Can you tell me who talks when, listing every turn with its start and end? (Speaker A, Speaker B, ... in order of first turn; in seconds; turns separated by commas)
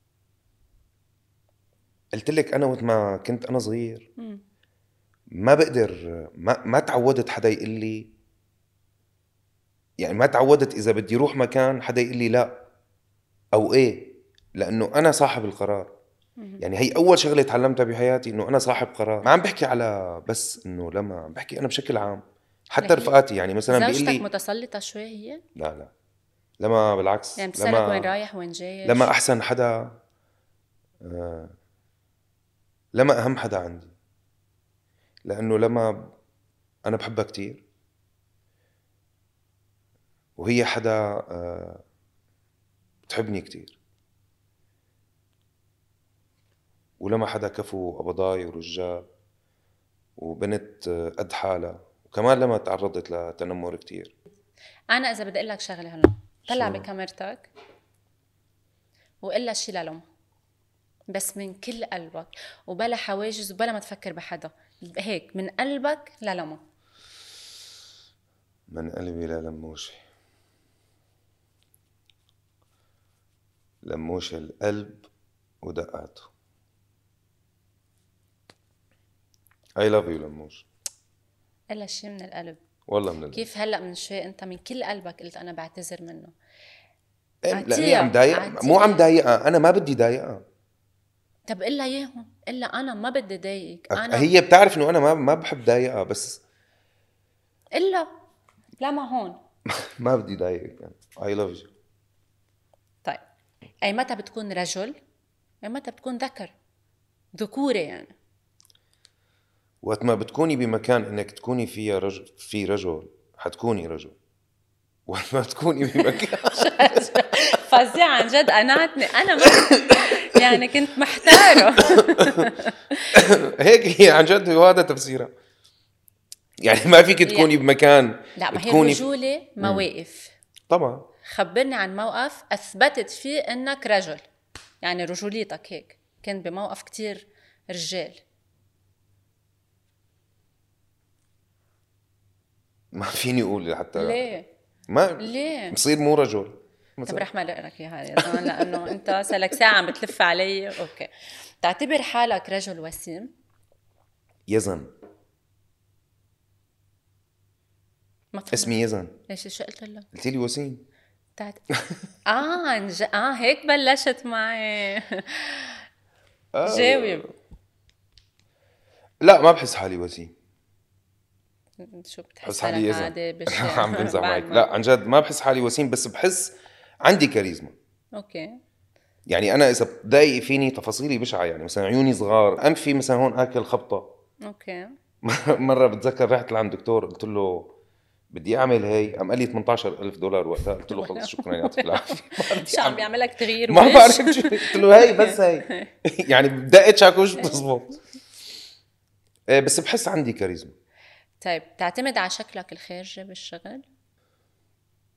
Speaker A: 2.1-4.1, Speaker A: 5.3-8.1, Speaker A: 10.0-12.6, Speaker A: 13.5-15.9, Speaker A: 16.6-24.2, Speaker B: 22.8-23.1, Speaker B: 23.7-25.4, Speaker A: 25.6-25.9, Speaker A: 26.6-28.1, Speaker B: 27.4-29.1, Speaker A: 28.8-30.0, Speaker A: 31.0-31.5, Speaker A: 32.9-33.9, Speaker A: 35.2-36.1, Speaker A: 36.9-37.6, Speaker A: 40.4-41.8, Speaker A: 43.1-43.8, Speaker A: 47.0-49.1, Speaker A: 50.2-54.1, Speaker B: 54.9-57.5, Speaker A: 56.5-56.9, Speaker B: 59.2-60.0, Speaker B: 61.1-66.6, Speaker A: 68.7-70.0, Speaker A: 73.8-75.0, Speaker A: 75.6-76.3, Speaker A: 79.8-80.7, Speaker B: 81.7-82.6, Speaker A: 82.9-83.5, Speaker B: 83.3-86.3, Speaker A: 87.4-90.4, Speaker B: 87.5-89.0, Speaker B: 91.5-94.3, Speaker A: 93.9-96.4, Speaker B: 97.7-98.1, Speaker B: 98.8-99.4, Speaker A: 99.7-101.7, Speaker B: 103.8-105.0, Speaker B: 105.6-106.5, Speaker B: 107.3-108.1, Speaker A: 109.8-114.2, Speaker A: 115.1-117.0, Speaker B: 116.5-123.1, Speaker A: 119.4-120.6, Speaker A: 121.2-122.5, Speaker A: 123.1-125.3, Speaker A: 126.6-129.1, Speaker B: 127.2-127.5, Speaker B: 128.3-130.3, Speaker A: 129.6-129.8, Speaker A: 130.7-131.1, Speaker B: 131.2-134.2, Speaker B: 134.8-138.2, Speaker A: 142.9-144.3, Speaker B: 143.9-144.5, Speaker A: 144.9-147.2, Speaker B: 145.2-145.8, Speaker B: 147.1-151.1, Speaker A: 148.2-149.2, Speaker B: 151.6-153.3, Speaker A: 154.5-154.9, Speaker B: 158.3-158.7, Speaker A: 158.5-159.1, Speaker B: 159.3-160.1, Speaker A: 160.1-160.8, Speaker B: 162.2-165.8, Speaker A: 166.5-167.3, Speaker B: 166.6-167.2, Speaker A: 169.2-170.3, Speaker B: 171.8-174.7, Speaker A: 172.4-177.7, Speaker B: 178.2-178.6, Speaker A: 179.3-184.1, Speaker B: 184.4-184.9, Speaker A: 185.2-187.7, Speaker A: 188.3-198.0, Speaker B: 190.9-195.9, Speaker B: 197.4-197.6, Speaker A: 199.5-200.7, Speaker B: 201.4-203.8